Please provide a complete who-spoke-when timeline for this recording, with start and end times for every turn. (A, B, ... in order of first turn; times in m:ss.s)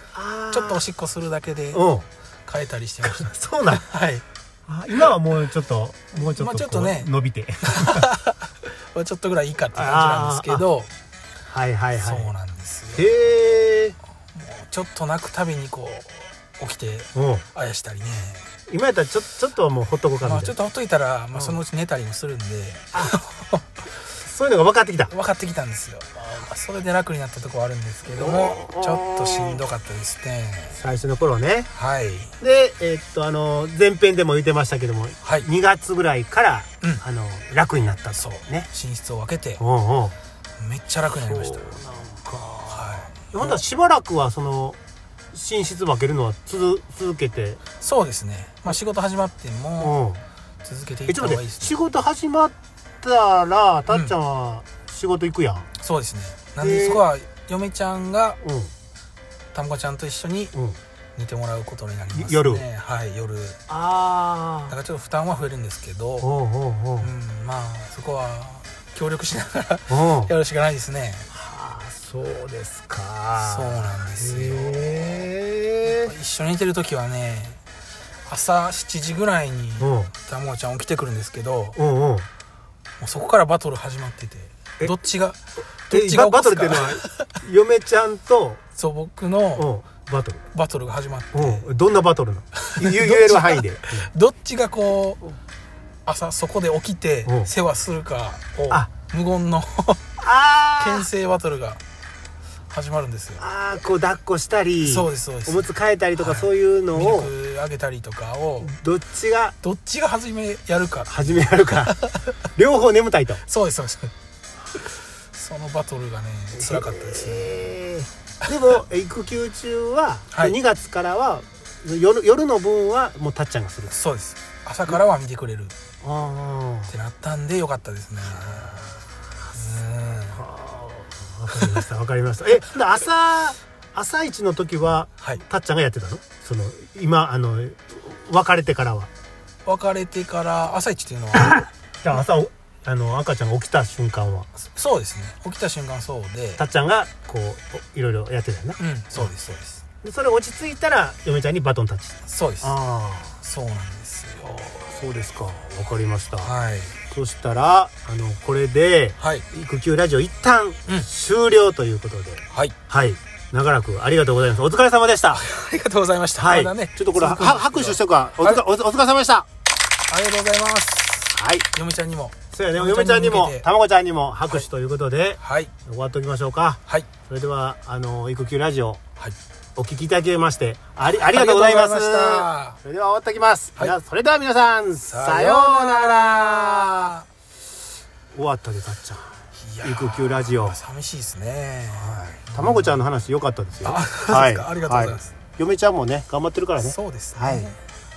0:00.1-0:00.8 A
0:00.5-0:01.8 B
0:01.7-0:02.1 A
0:02.5-0:04.2 B
0:03.0-0:03.8 A
0:04.7-0:08.1 A
0:06.2-0:07.1 B
0:07.6-0:10.9 B
0:09.7-0:10.7 A
0:11.5-0:12.3 A
0:12.0-0:13.1 B
0:12.9-0:14.0 A
0:14.3-0:18.5 B
0:17.2-0:17.5 A
0:18.7-0:20.6 A
0:20.2-0:23.9 B
0:24.1-0:25.1 A
0:25.1-0:30.8 B
0:28.1-0:29.6 A
0:30.7-0:31.7 A
0:31.7-0:32.3 B
0:32.4-0:38.7 A
0:38.2-0:39.6 B
0:39.6-0:40.2 A
0:40.6-0:41.8 B
0:41.1-0:44.8 A
0:42.7-0:43.6 B
0:45.3-0:47.6 A
0:47.8-0:49.9 B
0:49.8-0:50.2 A
0:50.6-0:51.7 B
0:51.1-0:55.7 A
0:55.8-0:58.4 B
0:56.6-0:57.0 A
0:58.4-0:58.7 A
0:59.5-1:00.5 B
1:01.2-1:03.6 B
1:02.1-1:02.6 A
1:03.7-1:04.8 A
1:04.7-1:06.3 B
1:06.2-1:07.1 A
1:07.0-1:11.3 B
1:09.9-1:10.3 A
1:11.3-1:16.1 A
1:13.4-1:15.3 B
1:15.8-1:17.6 B
1:18.3-1:21.8 B
1:19.8-1:20.1 A
1:21.8-1:22.3 A
1:23.0-1:27.3 B
1:25.9-1:28.6 A
1:28.8-1:29.7 B
1:29.6-1:30.4 A
1:30.5-1:31.7 B
1:31.3-1:34.1 A
1:32.7-1:35.2 B
1:36.1-1:40.0 B
1:40.2-1:41.1 A
1:40.8-1:41.8 B
1:42.7-1:43.4 B
1:43.4-1:47.3 A
1:44.8-1:48.7 B
1:48.6-1:49.6 A
1:49.6-1:52.3 B
1:51.1-1:52.0 A
1:52.5-1:53.4 A
1:53.5-1:54.1 B
1:54.8-1:57.6 B
1:56.6-2:03.9 A
2:03.9-2:05.7 B
2:06.0-2:06.9 A
2:06.9-2:10.4 B
2:10.3-2:19.1 A
2:19.6-2:21.6 B
2:21.4-2:24.5 A
2:24.7-2:26.6 B
2:26.6-2:29.3 A
2:28.8-2:29.8 B
2:30.0-2:33.4 A
2:32.2-2:32.8 B
2:33.4-2:35.1 B
2:34.8-2:36.5 A
2:36.4-2:37.0 B
2:37.1-2:45.4 A
2:39.2-2:39.5 B
2:45.3-2:48.6 B
2:46.4-2:49.5 A
2:50.1-2:53.7 B
2:51.3-2:51.7 A
2:52.5-2:59.0 A
2:55.4-2:55.7 B
2:59.8-3:07.1 A
3:01.0-3:02.8 B
3:05.0-3:07.2 B
3:08.3-3:10.8 A
3:09.6-3:13.0 B
3:11.9-3:17.7 A
3:13.8-3:15.3 B
3:16.8-3:17.8 B